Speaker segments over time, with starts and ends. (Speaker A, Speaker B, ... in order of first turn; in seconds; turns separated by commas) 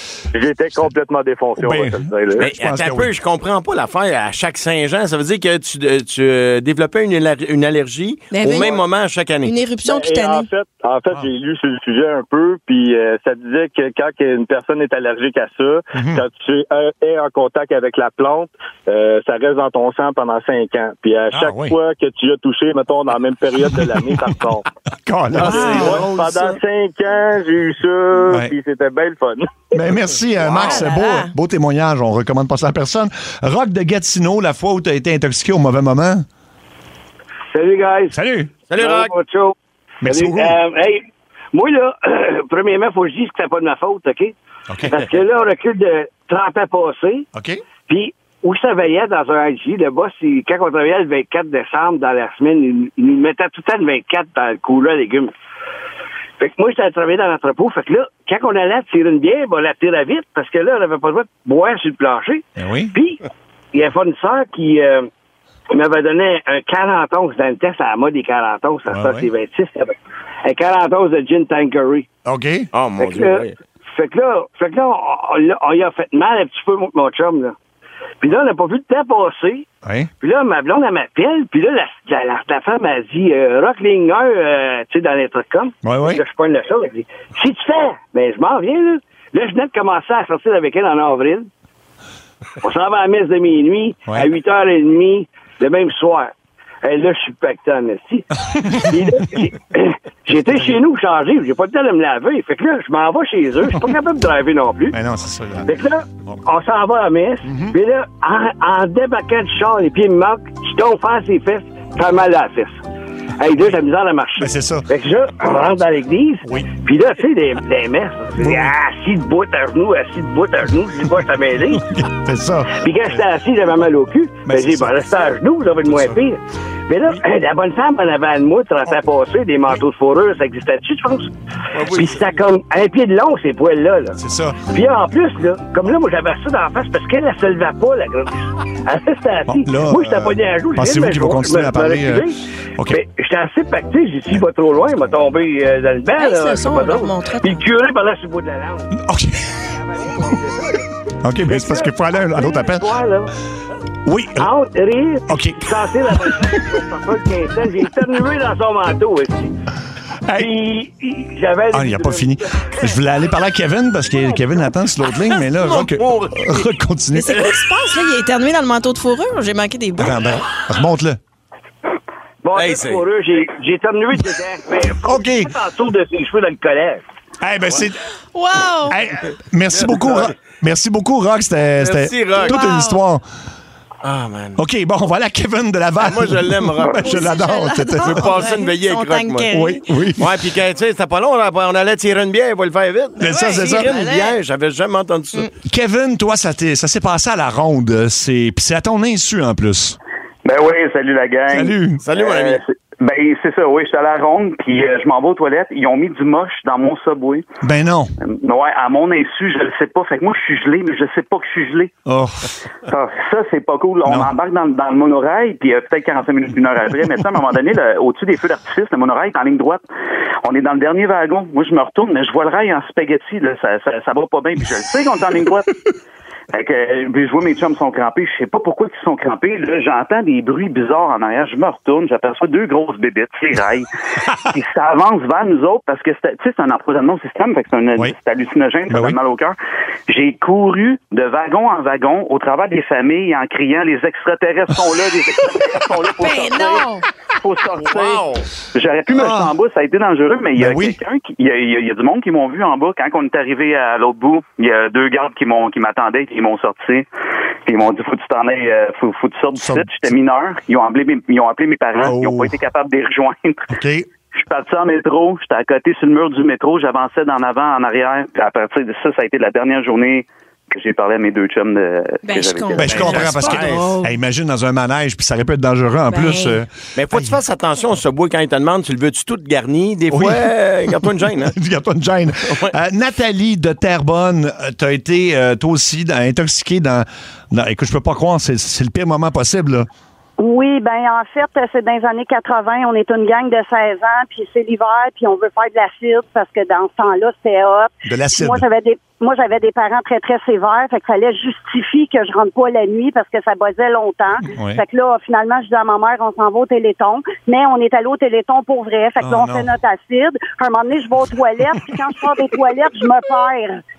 Speaker A: 0.3-2.5, Speaker B: 1.6-3.1, Speaker C: 2.4-9.6, Speaker D: 8.3-8.9, Speaker D: 9.4-10.5, Speaker A: 9.8-24.6, Speaker B: 15.9-16.2, Speaker B: 21.3-21.8, Speaker B: 25.0-26.2, Speaker A: 25.3-29.4, Speaker D: 25.4-26.1, Speaker B: 28.3-28.5, Speaker B: 29.7-36.3, Speaker C: 30.4-30.8, Speaker D: 30.6-31.3, Speaker E: 37.5-38.2, Speaker B: 38.1-38.5, Speaker C: 38.7-39.1, Speaker E: 38.7-47.3, Speaker B: 40.0-40.6, Speaker B: 44.7-45.0, Speaker B: 47.4-47.6, Speaker E: 47.9-55.3, Speaker E: 56.4-65.1, Speaker B: 62.6-63.0, Speaker E: 65.7-72.1, Speaker B: 68.9-69.3, Speaker B: 72.2-72.7, Speaker C: 72.7-73.5, Speaker E: 73.0-77.5, Speaker E: 78.2-79.7, Speaker B: 79.8-80.1, Speaker E: 80.2-91.5, Speaker B: 85.8-86.2, Speaker E: 92.6-105.0, Speaker B: 104.9-106.4, Speaker E: 105.6-112.8, Speaker B: 107.5-107.8, Speaker E: 113.4-121.9, Speaker B: 114.4-114.9, Speaker B: 116.4-116.7, Speaker B: 118.4-118.7, Speaker B: 121.8-123.2, Speaker E: 122.7-149.1, Speaker B: 124.5-125.0, Speaker B: 125.8-126.2, Speaker C: 131.8-132.3, Speaker B: 134.2-134.6, Speaker B: 139.5-142.2, Speaker D: 146.2-147.6, Speaker B: 149.0-149.7, Speaker E: 149.6-153.3, Speaker B: 151.2-152.8, Speaker B: 154.1-154.5, Speaker E: 154.3-159.6, Speaker B: 155.3-155.7, Speaker B: 156.2-156.6, Speaker E: 160.3-163.0, Speaker B: 161.7-167.4, Speaker C: 165.6-166.6, Speaker D: 167.1-170.2, Speaker B: 170.0-171.2, Speaker E: 172.4-177.0, Speaker C: 172.6-173.0, Speaker B: 175.1-175.5, Speaker B: 177.4-178.0, Speaker D: 178.3-179.0, Speaker B: 178.9-183.2, Speaker C: 179.7-180.3, Speaker C: 181.8-182.5, Speaker D: 182.3-183.0, Speaker C: 184.0-184.6, Speaker B: 184.6-188.4, Speaker C: 186.0-187.2, Speaker D: 187.1-189.9, Speaker C: 188.0-189.5, Speaker B: 189.5-190.3, Speaker C: 190.2-195.5, Speaker D: 193.2-194.4, Speaker B: 193.2-193.9, Speaker B: 195.6-200.0, Speaker F: 200.4-207.4, Speaker B: 201.5-202.0, Speaker C: 202.0-202.6, Speaker B: 207.6-208.1, Speaker F: 208.2-211.9, Speaker B: 212.1-212.5, Speaker F: 212.9-219.8, Speaker B: 214.1-214.3, Speaker F: 220.4-225.7, Speaker F: 226.5-233.9, Speaker F: 234.5-239.6, Speaker B: 238.9-239.2, Speaker F: 240.1-257.1, Speaker D: 246.2-247.1, Speaker C: 247.9-248.4, Speaker B: 249.1-249.5, Speaker B: 250.6-251.0, Speaker F: 257.7-263.7, Speaker B: 259.6-259.9, Speaker B: 262.0-262.5, Speaker B: 263.7-264.1, Speaker F: 264.4-273.2, Speaker D: 272.2-274.2, Speaker B: 272.8-277.4, Speaker C: 272.8-273.9, Speaker D: 276.1-276.6, Speaker C: 277.0-281.5, Speaker B: 280.1-280.5, Speaker B: 281.1-289.9, Speaker G: 290.4-313.8, Speaker B: 298.1-298.6, Speaker B: 304.6-304.8, Speaker B: 309.2-309.7